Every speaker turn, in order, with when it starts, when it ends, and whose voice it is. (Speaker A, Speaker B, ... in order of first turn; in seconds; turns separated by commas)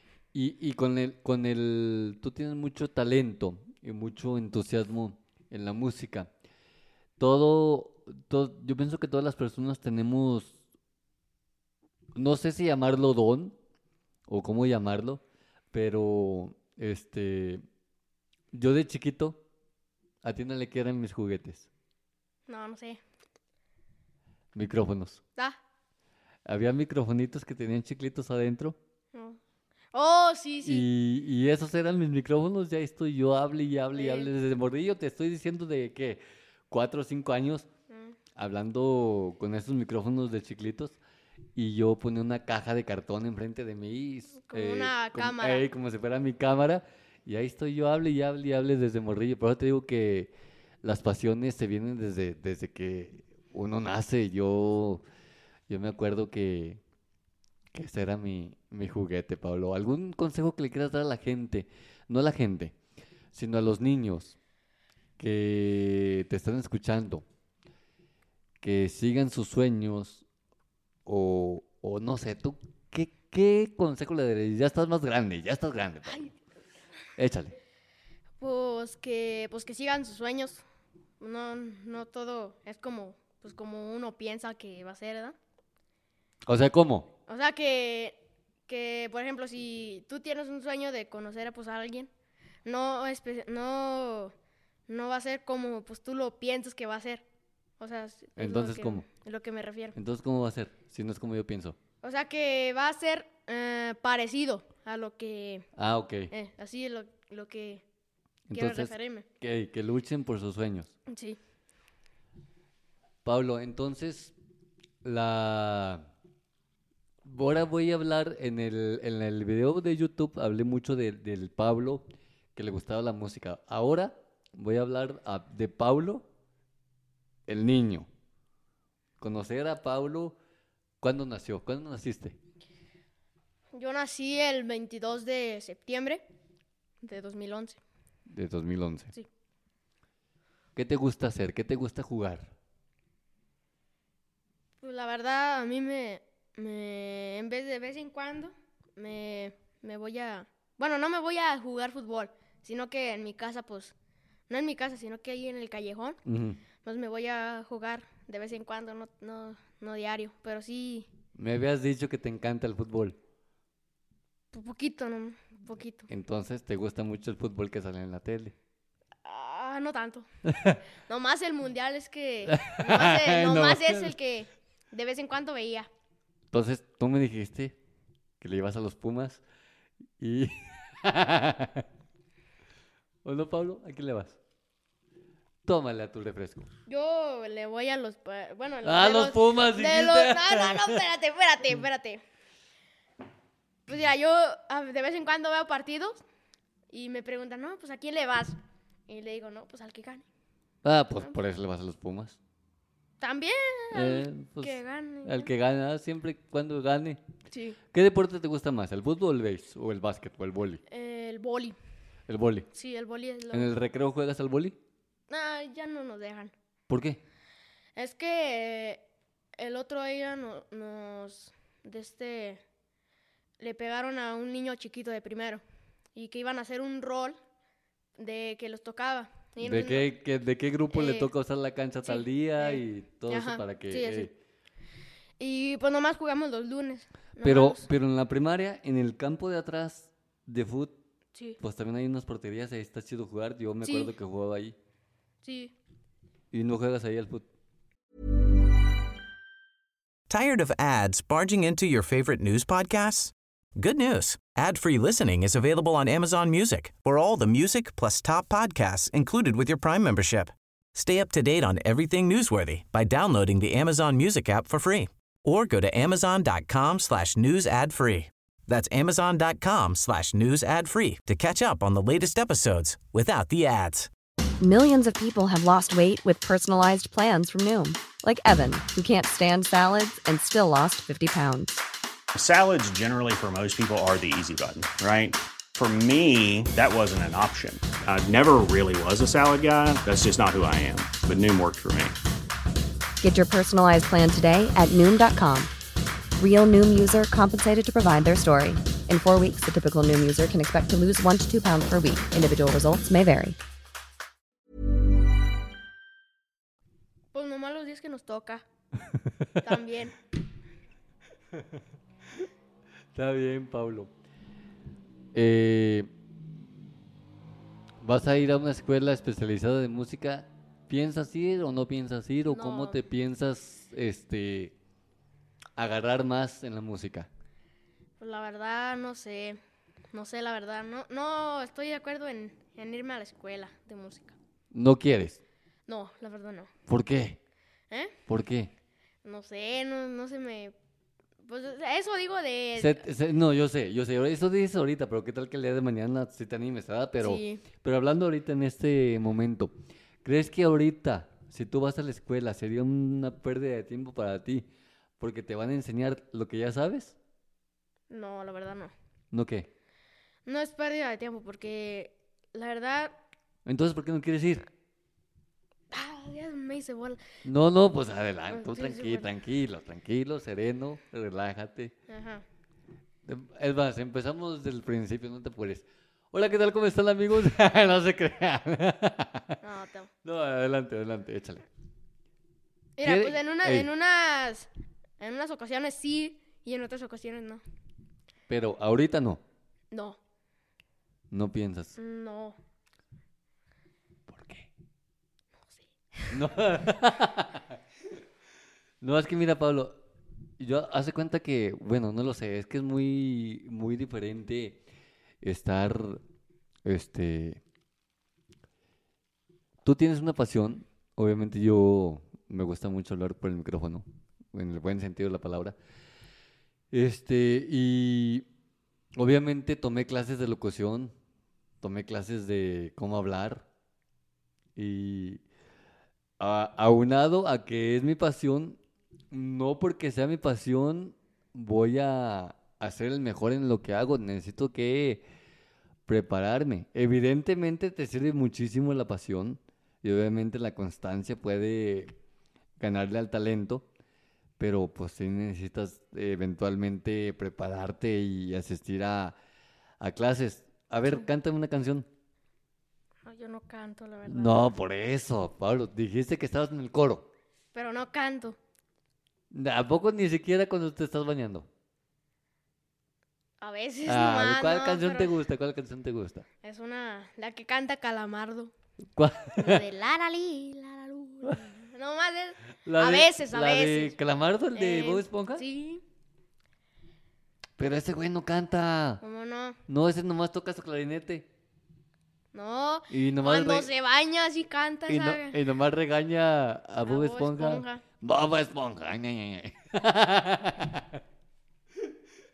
Speaker A: 0.3-6.3, Speaker A: 7.2-10.6, Speaker A: 12.1-13.6, Speaker A: 14.3-15.2, Speaker A: 15.7-17.6, Speaker A: 18.5-19.4, Speaker A: 20.2-21.7, Speaker B: 22.5-23.0, Speaker A: 24.5-25.2, Speaker A: 26.4-28.8, Speaker B: 29.1-29.4, Speaker B: 29.9-30.9, Speaker A: 30.6-37.7, Speaker B: 33.9-34.3, Speaker B: 37.9-38.1, Speaker A: 38.4-41.0, Speaker A: 41.5-50.3, Speaker B: 44.4-45.6, Speaker A: 50.8-55.0, Speaker A: 55.7-56.8, Speaker A: 57.7-62.7, Speaker A: 63.3-64.3, Speaker A: 65.2-67.2, Speaker A: 68.6-70.2, Speaker A: 71.0-76.3, Speaker A: 77.2-77.6, Speaker B: 78.4-80.6, Speaker B: 81.2-85.3, Speaker A: 86.5-87.1, Speaker B: 87.3-92.1, Speaker B: 92.6-94.3, Speaker B: 94.9-97.2, Speaker B: 97.8-100.0, Speaker A: 98.4-99.0, Speaker A: 99.9-101.8, Speaker B: 102.0-105.7, Speaker A: 105.8-106.3, Speaker B: 106.3-107.8, Speaker A: 108.5-110.9, Speaker B: 108.5-109.2, Speaker B: 111.1-111.4, Speaker A: 113.2-114.3, Speaker A: 115.0-116.1, Speaker A: 117.2-126.3, Speaker A: 127.5-128.1, Speaker A: 129.2-130.3, Speaker A: 131.0-132.4, Speaker B: 133.7-136.2, Speaker B: 137.0-137.8, Speaker A: 138.3-139.1, Speaker A: 140.7-142.5, Speaker B: 144.8-153.9, Speaker B: 154.5-156.2, Speaker A: 156.2-156.6, Speaker B: 156.8-161.1, Speaker A: 161.3-163.2, Speaker B: 164.5-166.1, Speaker A: 166.1-168.5, Speaker B: 169.2-170.3, Speaker A: 170.5-170.8, Speaker B: 171.1-175.9, Speaker A: 172.5-174.1, Speaker A: 176.5-177.8, Speaker A: 178.4-179.4, Speaker A: 180.2-181.9, Speaker A: 183.2-184.4, Speaker A: 185.6-186.7, Speaker B: 186.9-192.2, Speaker A: 188.8-191.0, Speaker B: 193.9-196.2, Speaker B: 196.9-200.2, Speaker A: 200.8-202.4, Speaker B: 203.2-205.5, Speaker A: 203.9-207.2, Speaker B: 207.5-207.8, Speaker A: 207.9-210.8, Speaker B: 210.9-211.8, Speaker A: 212.3-212.7, Speaker B: 212.7-213.7, Speaker A: 213.5-214.8, Speaker B: 215.3-216.5, Speaker A: 216.9-217.2, Speaker B: 217.9-219.0, Speaker B: 219.6-222.6, Speaker B: 223.6-225.6, Speaker B: 226.1-227.4, Speaker B: 228.2-230.1, Speaker A: 229.6-234.3, Speaker B: 230.9-231.3, Speaker B: 232.1-234.3, Speaker B: 235.4-237.8, Speaker A: 237.4-241.0, Speaker A: 241.6-244.7, Speaker B: 243.8-244.1, Speaker B: 245.4-245.7, Speaker A: 246.5-247.4, Speaker C: 250.3-274.1, Speaker D: 274.6-281.8, Speaker E: 282.3-292.1, Speaker D: 293.2-295.7, Speaker D: 296.4-303.6, Speaker B: 307.3-308.6, Speaker B: 309.6-310.2, Speaker A: 311.5-311.8, Speaker A: 313.1-314.1, Speaker A: 315.3-316.1, Speaker A: 318.0-324.7, Speaker B: 322.5-323.0, Speaker A: 325.8-327.3, Speaker B: 328.2-329.6, Speaker B: 330.1-334.4, Speaker A: 334.7-335.4, Speaker B: 335.9-336.7, Speaker A: 336.9-337.4, Speaker B: 337.9-338.1, Speaker A: 338.3-338.7, Speaker B: 339.2-340.7, Speaker B: 341.4-343.0, Speaker A: 342.8-354.6, Speaker B: 347.2-347.6, Speaker A: 355.2-357.1, Speaker B: 358.1-358.9, Speaker A: 359.3-359.7, Speaker B: 360.4-363.2, Speaker A: 363.6-364.7, Speaker B: 365.9-367.2, Speaker A: 367.4-371.9, Speaker B: 368.5-369.3, Speaker B: 372.1-372.4, Speaker A: 373.2-379.6, Speaker B: 379.6-380.1, Speaker A: 380.2-381.6, Speaker B: 383.0-384.7, Speaker A: 383.0-383.9, Speaker B: 385.2-387.6, Speaker A: 388.5-389.4, Speaker B: 389.9-390.2, Speaker A: 391.3-391.9, Speaker B: 392.0-392.6, Speaker A: 394.3-394.7, Speaker B: 395.7-396.3, Speaker A: 396.3-397.8, Speaker A: 399.0-400.0, Speaker A: 400.6-404.8, Speaker A: 405.4-406.2, Speaker A: 406.8-407.6, Speaker A: 409.8-415.8, Speaker A: 416.9-418.4, Speaker A: 419.1-421.1, Speaker A: 421.8-423.6, Speaker A: 424.8-425.4, Speaker A: 426.4-428.8, Speaker A: 429.3-435.2, Speaker A: 436.1-442.1, Speaker A: 442.8-443.9, Speaker A: 444.6-449.4, Speaker A: 450.0-452.1, Speaker B: 453.2-454.7, Speaker A: 454.3-457.3, Speaker B: 457.7-458.6, Speaker A: 459.5-461.7, Speaker B: 463.6-465.3, Speaker A: 464.1-466.4, Speaker B: 466.6-468.7, Speaker A: 469.1-469.8, Speaker B: 469.5-474.2, Speaker A: 472.8-475.6, Speaker B: 474.7-476.0, Speaker A: 477.8-479.2, Speaker B: 479.2-479.8, Speaker A: 479.9-481.5, Speaker B: 482.5-485.6, Speaker A: 483.1-483.9, Speaker A: 485.1-491.2, Speaker B: 487.0-488.0